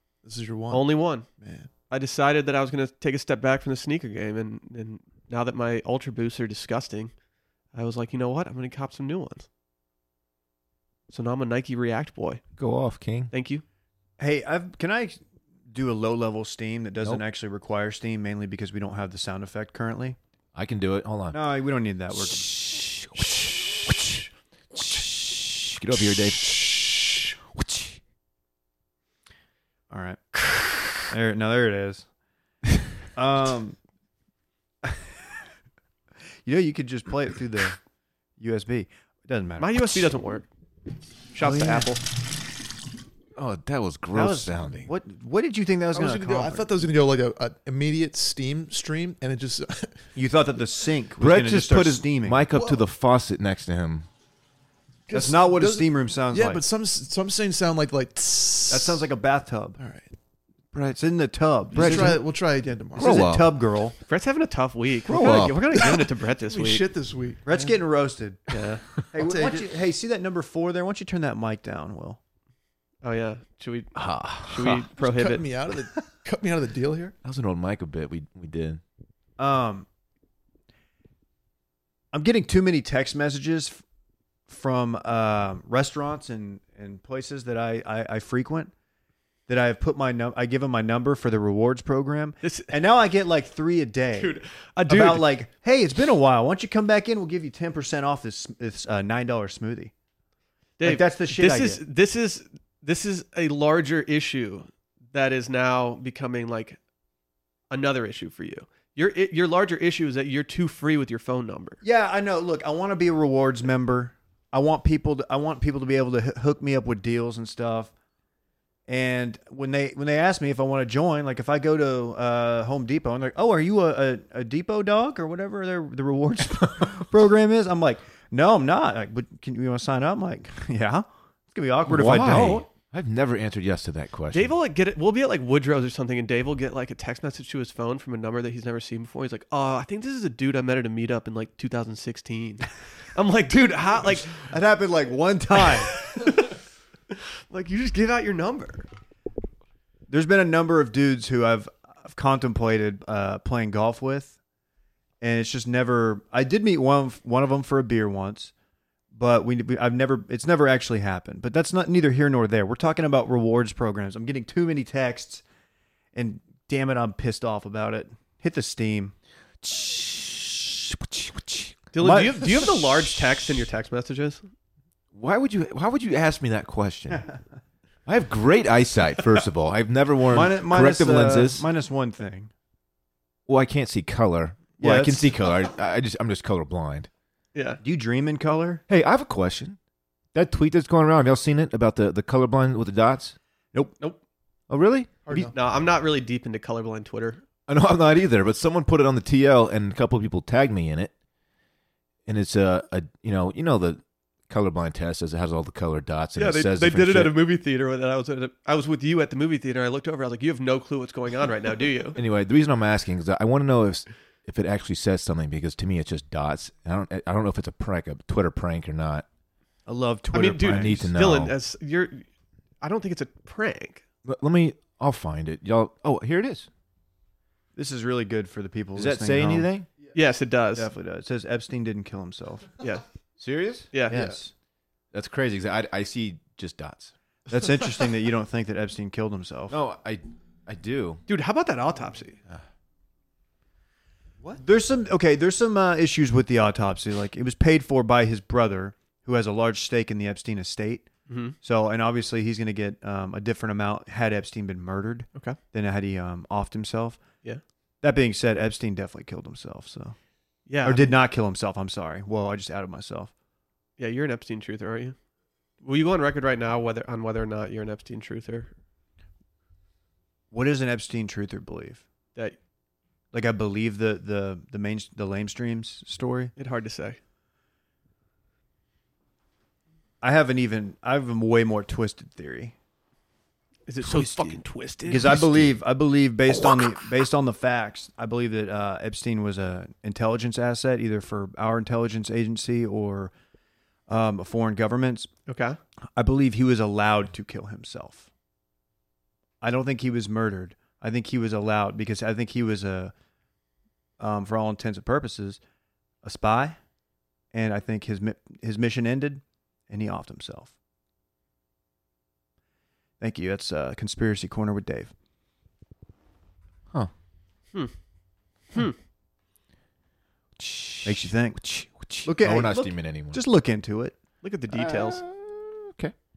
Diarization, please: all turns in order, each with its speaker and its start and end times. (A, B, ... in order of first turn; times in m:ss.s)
0:00.2-0:01.7 A
0:00.7-0:01.2 B
0:01.9-0:07.1 B
0:07.7-0:09.5 B
0:11.1-0:12.4 B
0:12.6-0:13.3 C
0:13.3-0:13.6 B
0:14.2-0:20.2 D
0:20.5-0:21.4 C
0:21.3-0:22.5 D
0:22.2-0:28.0 C
0:29.9-0:30.2 D
0:31.1-0:32.0 D
0:33.2-0:33.8 D
0:34.8-0:35.3 D
0:36.4-0:37.8 D
0:38.4-0:40.1 D
0:39.6-0:40.5 B
0:41.3-0:42.0 B
0:41.4-0:41.9 D
0:43.4-0:44.9 C
0:44.1-0:46.7 D
0:45.9-0:50.0 A
0:50.1-0:52.4 D
0:51.2-0:54.1 C
0:52.5-0:52.8 A
0:55.1-0:59.0 A
0:55.1-0:56.6 D
0:58.7-0:59.8 D
0:59.8-1:00.1 A
1:00.7-1:01.0 C
1:01.0-1:02.2 D
1:01.7-1:02.2 C
1:01.7-1:03.3 A
1:03.0-1:03.5 C
1:03.0-1:04.0 D
1:04.1-1:06.8 B
1:05.1-1:05.6 C
1:05.2-1:06.0 D
1:06.5-1:07.7 A
1:07.4-1:08.5 D
1:08.5-1:08.8 B
1:09.1-1:12.2 D
1:09.2-1:09.7 A
1:13.0-1:15.4 B
1:13.9-1:14.8 C
1:15.0-1:17.1 A
1:17.2-1:18.8 C
1:19.4-1:19.8 D
1:22.1-1:23.8 D
1:24.5-1:28.7 D
1:29.5-1:39.9 D
1:32.4-1:32.7 B
1:34.2-1:35.3 B
1:40.8-1:46.8 B
1:40.8-1:41.8 D
1:47.7-1:51.8 B
1:51.8-1:57.9 D
1:58.9-2:12.6 D
2:11.9-2:14.5 C
2:14.3-2:24.4 B
2:24.2-2:25.9 D
2:25.8-2:26.6 B
2:27.1-2:28.9 B
2:30.1-2:34.4 D
2:35.2-2:38.5 D
2:39.1-2:45.4 D
2:46.1-2:49.1 D
2:49.6-2:51.3 C
2:51.9-2:54.4 B
2:52.0-2:52.7 D
2:55.1-2:57.3 C
2:58.0-3:01.6 C
3:00.3-3:02.5 D
3:03.5-3:07.1 C
3:04.8-3:05.4 D
3:07.5-3:07.8 B
3:07.8-3:08.8 D
3:08.9-3:09.8 C
3:10.3-3:13.4 C
3:13.7-3:14.0 D
3:14.7-3:15.3 C
3:15.2-3:15.6 A
3:15.3-3:17.4 B
3:17.7-3:21.1 C
3:22.2-3:27.4 C
3:26.4-3:32.2 B
3:32.2-3:39.2 C
3:39.8-3:41.1 D
3:40.3-3:42.2 B
3:40.6-3:41.5 C
3:42.8-3:44.0 B
3:44.2-3:46.7 C
3:47.7-3:49.7 D
3:49.0-3:49.9 C
3:50.1-3:50.9 B
3:50.8-3:52.7 D
3:53.4-3:53.9 C
3:53.9-3:54.3 B
3:54.1-3:54.5 D
3:55.1-3:57.1 C
3:57.5-3:59.8 D
3:59.7-4:01.2 C
4:01.3-4:02.4 B
4:04.5-4:11.1 D
4:11.3-4:11.5 B
4:11.6-4:17.2 D
4:18.0-4:20.2 D
4:20.7-4:21.1 B
4:20.8-4:23.3 D
4:24.0-4:25.2 B
4:25.8-4:28.7 B
4:30.5-4:32.0 D
4:33.3-4:36.5 D
4:36.6-4:37.2 B
4:40.2-4:42.7 D
4:43.9-4:45.4 B
4:44.0-4:45.7 C
4:45.0-4:53.3 D
4:54.1-4:55.3 D
4:55.5-4:55.8 B
4:56.1-4:58.3 D
4:59.6-5:03.1 D
5:04.2-5:05.6 D
5:06.2-5:06.8 D
5:07.5-5:10.7 D
5:13.2-5:15.1 D
5:20.6-5:23.4 C
5:21.0-5:21.6 D
5:22.2-5:24.2 D
5:24.4-5:25.2 B
5:24.7-5:26.1 C